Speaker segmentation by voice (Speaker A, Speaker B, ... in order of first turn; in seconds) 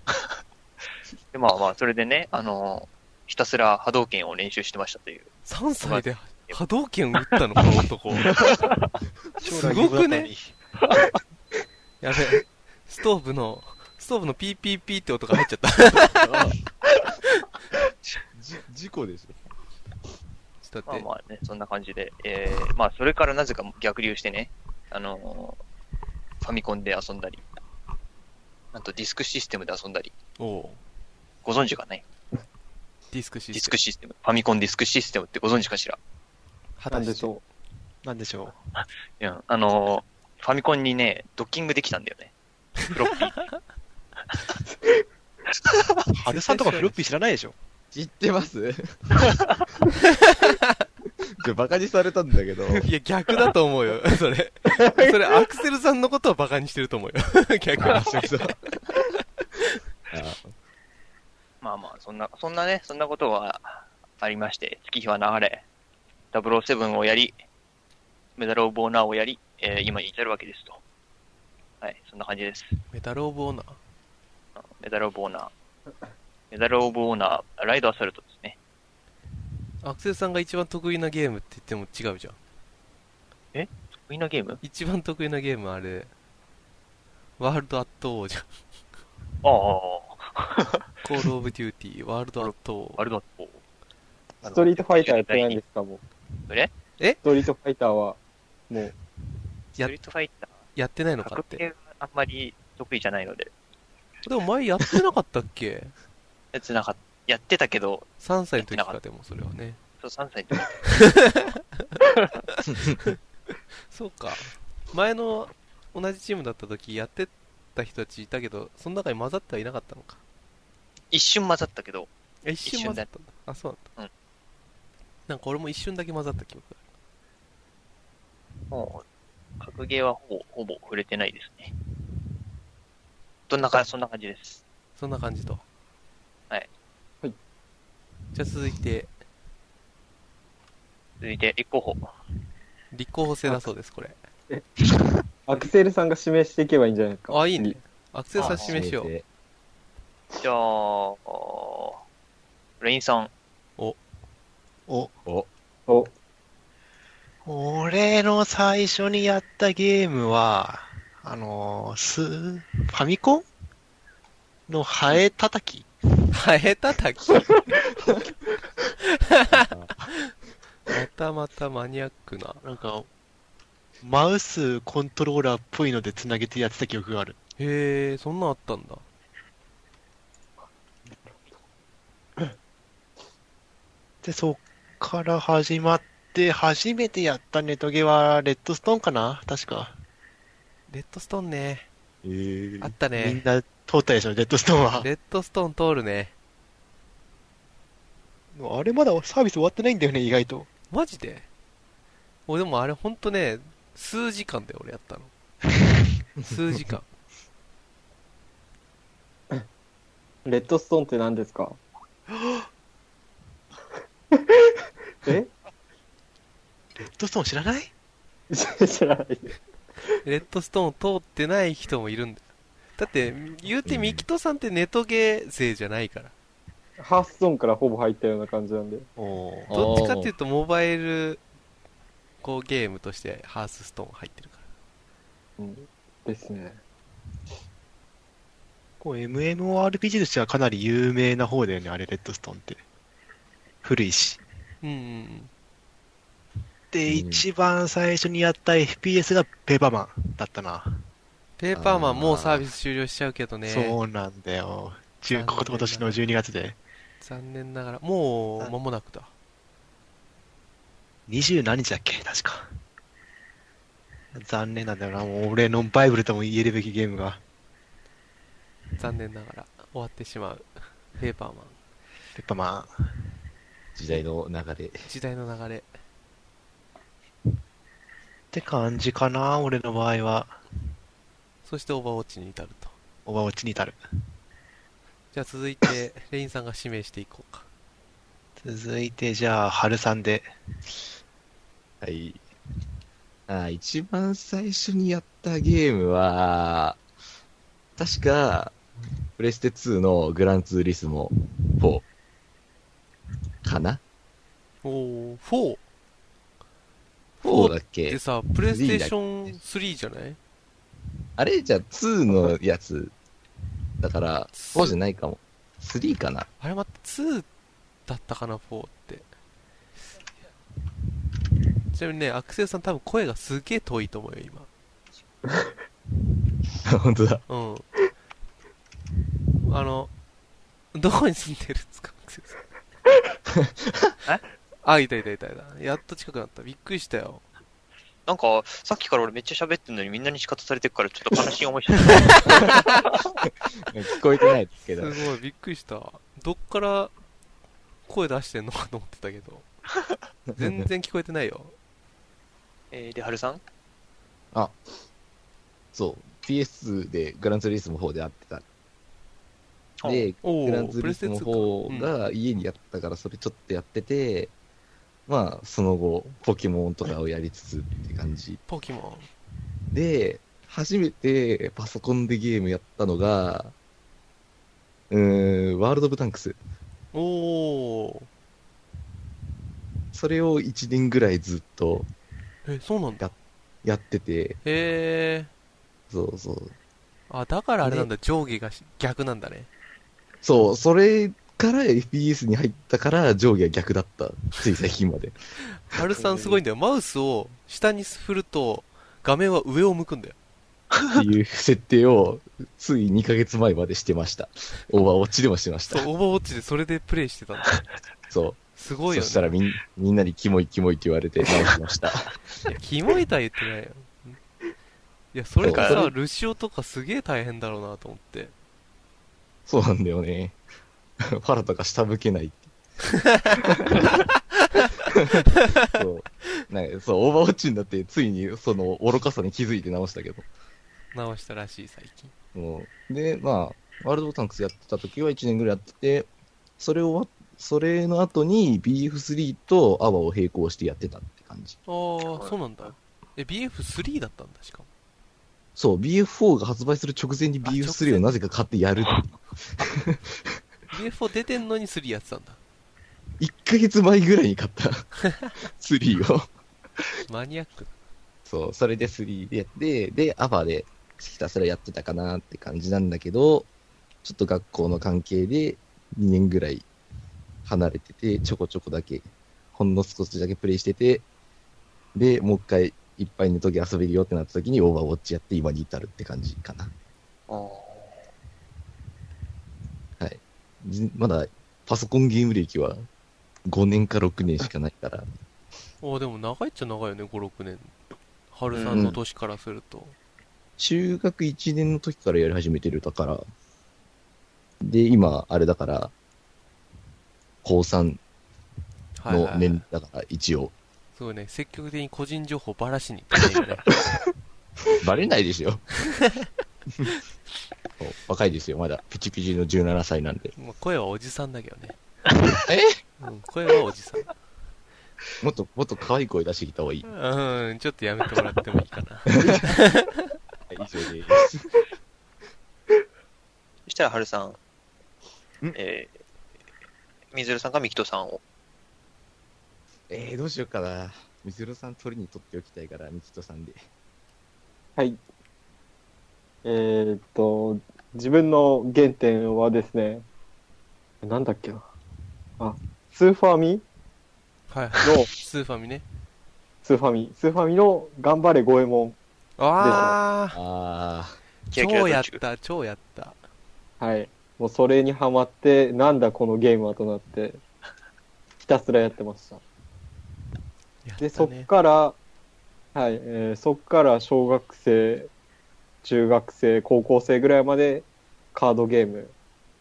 Speaker A: 1.3-6.6, 8.4-8.8, 20.9-25.6, 26.4-27.4, 28.7-30.1, 31.4-32.0, 33.5-36.0, 39.2-43.5, 61.6-65.6, 66.3-67.3, 68.4-70.8, 71.8-72.8, 74.6-75.5, 76.5-78.6, 83.5-84.6, 89.4-90.8, 92.4-93.6, 94.4-95.6, 99.8-100.5, 101.2-103.5, 106.5-109.0, 110.0-110.8, 121.1-122.1, 122.6-123.1, 128.7-129.0, 129.6-131.7, 133.5-134.6, 141.2-142.1, 148.4-148.8, 150.4-152.0, 152.8-153.3, 338.3-342.9, 352.9-353.6, 360.0-360.3, 415.6-416.0, 442.3-442.6, 477.5-478.2, 488.7-489.1, 523.9-524.6, 525.7-526.2, 527.3-528.4, 551.7-552.4
Speaker B: 5.5-8.3, 9.6-10.3, 12.0-16.2, 20.6-21.1, 30.4-30.8, 33.1-33.7, 36.8-37.3, 46.3-47.0, 50.3-50.7, 52.8-58.5, 72.9-73.8, 79.8-82.4, 84.6-86.1, 87.4-88.5, 91.0-93.0, 100.8-101.6, 104.2-105.9, 108.2-109.8, 110.8-112.0, 112.6-113.2, 113.9-120.2, 122.4-123.8, 125.3-126.8, 135.0-135.6, 138.3-139.1, 142.9-144.2, 147.3-149.1, 166.3-167.5, 169.1-169.6, 170.9-172.6, 177.6-179.0, 190.9-191.9, 192.8-193.4, 195.0-196.3, 200.9-201.5, 202.5-205.3, 206.4-207.1, 220.2-222.4, 223.0-226.3, 229.7-231.4, 232.4-234.6, 244.8-245.5, 251.6-254.0, 255.3-256.2, 257.2-259.3, 269.0-271.8, 275.1-275.9, 281.6-282.9, 285.3-287.6, 304.8-305.8, 307.4-310.4, 314.5-314.9, 316.6-317.5, 318.1-319.3, 321.9-324.7, 327.5-327.9, 329.6-330.1, 330.9-332.6, 334.8-337.4, 344.8-347.1, 348.1-349.6, 350.6-351.7, 360.4-362.1, 368.7-369.3, 377.1-378.3, 382.7-383.3, 384.6-385.5, 387.3-389.7, 395.8-400.4, 405.9-407.8, 408.8-409.5, 412.7-414.4, 415.3-418.5, 431.1-432.3, 441.9-444.9, 447.6-448.3, 450.9-452.6, 457.3-457.9, 486.0-487.9, 488.5-490.1, 499.2-499.8, 501.1-503.9, 510.6-512.0, 513.2-514.3, 517.0-520.2, 544.7-546.0, 549.6-550.6, 551.7-553.4, 561.0-561.7
Speaker C: 9.4-10.5, 38.0-38.5, 46.1-47.5, 154.9-155.1, 157.4-163.5, 164.7-165.9, 172.6-173.1, 174.0-177.4, 184.2-189.9, 193.1-195.1, 198.5-200.7, 217.0-217.9, 229.2-229.7, 239.0-242.8, 243.8-244.4, 246.9-250.9, 253.6-256.8, 261.3-262.7, 264.3-267.4, 272.3-272.9, 278.5-280.6, 283.2-284.0, 288.6-290.5
Speaker D: 16.1-16.6, 18.3-19.3, 47.9-49.4, 51.4-52.9, 57.8-59.0, 60.1-60.5, 148.4-149.2, 169.5-170.1, 192.2-192.9, 223.8-224.2, 229.7-230.3, 247.1-247.4, 251.7-252.7, 273.9-275.1, 292.0-292.4, 293.5-297.0, 298.0-298.8, 299.4-302.0, 303.6-304.0, 307.4-309.6, 311.4-313.1, 314.0-316.5, 326.8-327.4, 343.9-345.1, 350.5-350.9, 355.9-358.6, 360.0-364.5, 365.3-368.6, 369.9-373.7, 375.1-376.6, 380.1-382.1, 383.2-384.6, 386.1-386.7, 387.8-388.1, 390.4-395.3, 401.1-406.1, 408.3-412.4, 415.6-416.1, 419.6-420.6, 421.2-422.7, 423.6-424.0, 425.1-430.4, 432.5-441.8, 445.8-450.4, 453.4-456.5, 458.4-463.7, 464.2-466.9, 467.6-471.2, 472.1-476.9, 480.2-483.1, 483.6-485.2, 488.9-489.2, 490.8-493.4, 494.8-496.1, 497.6-498.2, 499.3-500.7, 505.0-505.9, 508.0-510.5, 512.6-513.0, 515.4-517.1, 519.3-519.6, 520.7-521.8, 530.1-533.9, 550.5-551.4
Speaker E: 36.9-37.4, 54.7-55.3, 94.4-96.0, 97.2-98.2, 145.4-147.8, 155.9-156.1, 181.2-181.5, 210.4-211.8, 215.2-215.5, 218.5-219.5, 227.0-229.1, 235.6-236.8, 536.6-540.2, 541.2-541.9, 542.6-543.8, 545.0-545.3, 546.8-549.2, 549.8-550.2, 554.0-557.6, 558.6-559.6, 561.2-562.2, 562.9-565.3, 566.0-569.3